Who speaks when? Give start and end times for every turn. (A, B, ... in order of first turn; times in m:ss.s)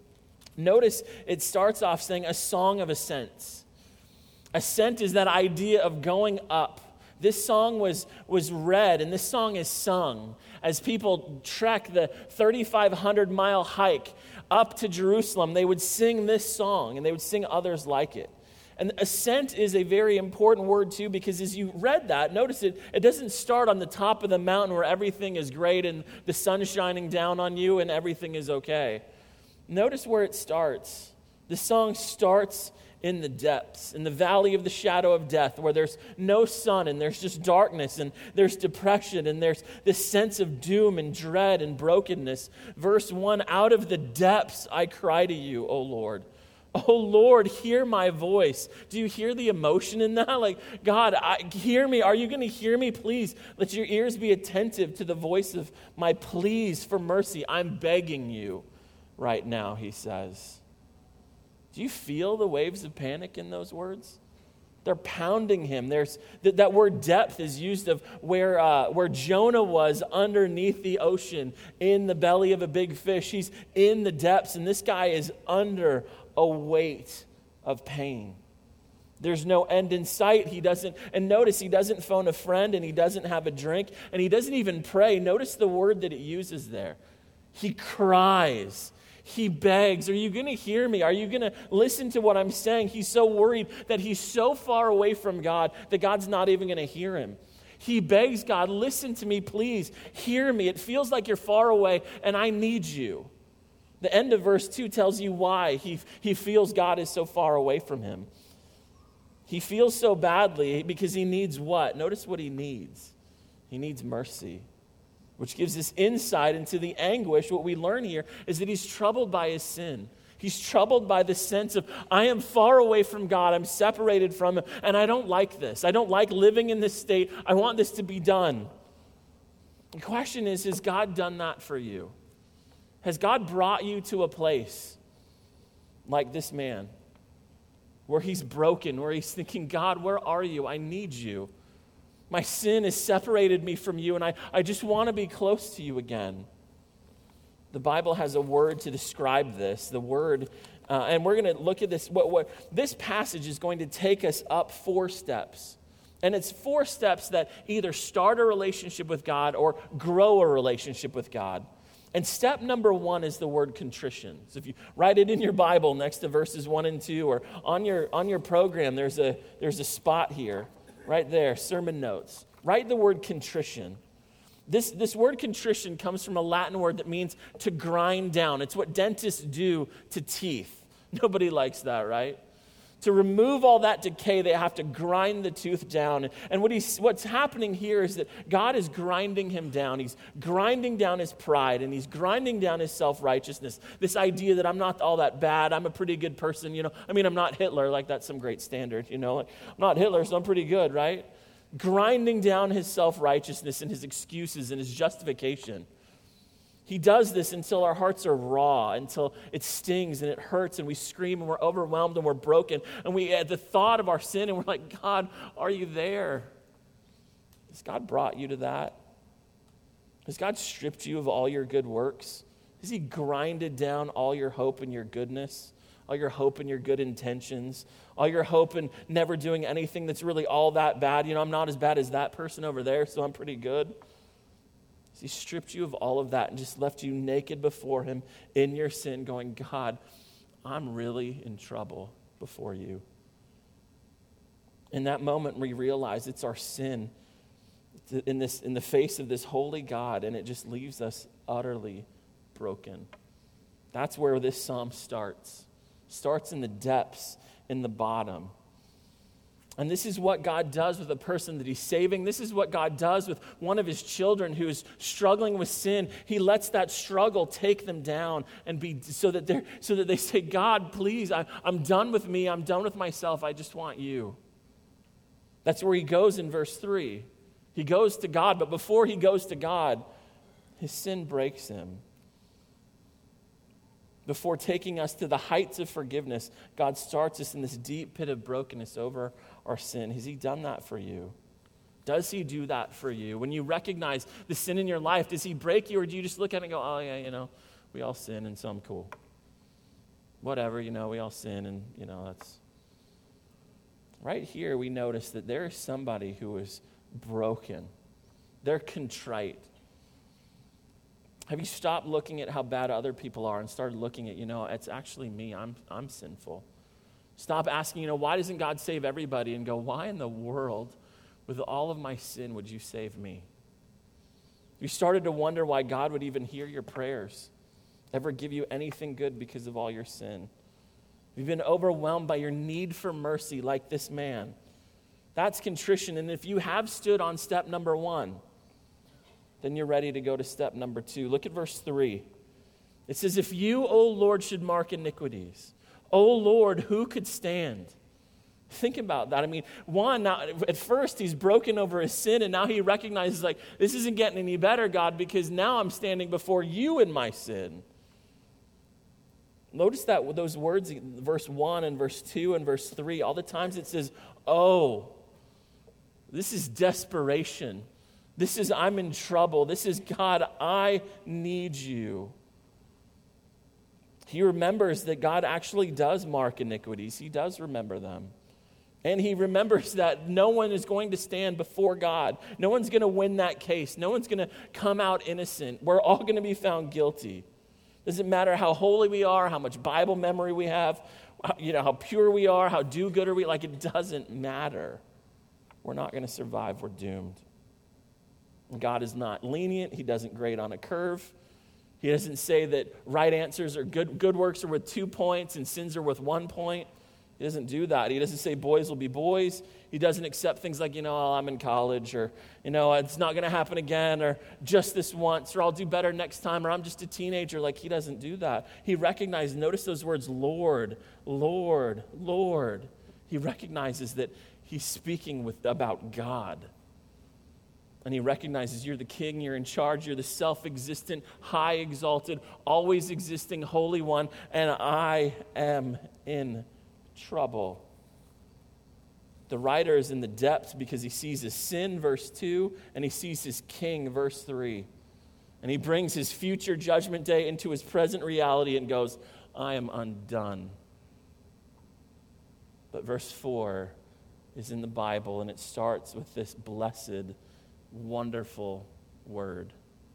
0:00.6-0:03.7 A
0:04.5-0:29.0 A
0:29.7-1:00.6 A
1:01.7-1:04.2 A
1:04.8-1:18.4 A
1:19.2-1:27.0 A
1:27.5-1:43.3 A
1:44.0-1:48.3 A
1:49.5-1:53.2 A
1:53.7-1:54.7 A
1:55.4-2:08.7 A
2:10.0-2:12.2 A
2:13.0-2:15.0 A
2:16.1-2:16.9 A
2:18.1-2:21.5 A
2:22.3-2:26.5 A
2:27.7-2:54.0 A
2:54.7-3:02.4 A
3:03.0-3:25.9 A
3:26.9-3:36.5 A
3:37.7-3:39.0 A
3:40.3-3:54.0 A
3:55.1-4:00.0 A
4:00.6-4:03.0 A
4:04.9-4:07.1 A
4:08.0-4:13.1 A
4:13.9-4:18.5 A
4:19.8-4:34.4 A
4:35.6-4:40.0 A
4:40.8-4:42.0 A
4:44.3-4:51.4 A
4:52.0-4:59.1 A
5:00.4-5:02.6 A
5:04.2-5:07.9 A
5:08.6-5:09.7 A
5:11.5-5:16.7 A
5:17.4-5:23.5 A
5:24.8-5:27.5 A
5:28.1-5:30.5 A
5:31.4-5:34.6 A
5:35.4-5:38.4 A
5:39.6-5:42.3 A
5:43.1-5:48.0 A
5:48.7-5:57.8 A
5:59.7-6:05.2 A
6:06.3-6:12.4 A
6:14.3-6:18.3 A
6:19.0-6:27.5 A
6:28.0-6:35.0 A
6:35.8-6:37.4 A
6:38.7-6:41.4 A
6:42.0-6:46.9 A
6:47.4-7:06.7 A
7:08.0-7:17.9 A
7:19.5-7:24.9 A
7:25.6-7:30.8 A
7:32.9-7:34.0 A
7:34.6-7:37.4 A
7:37.9-7:39.8 A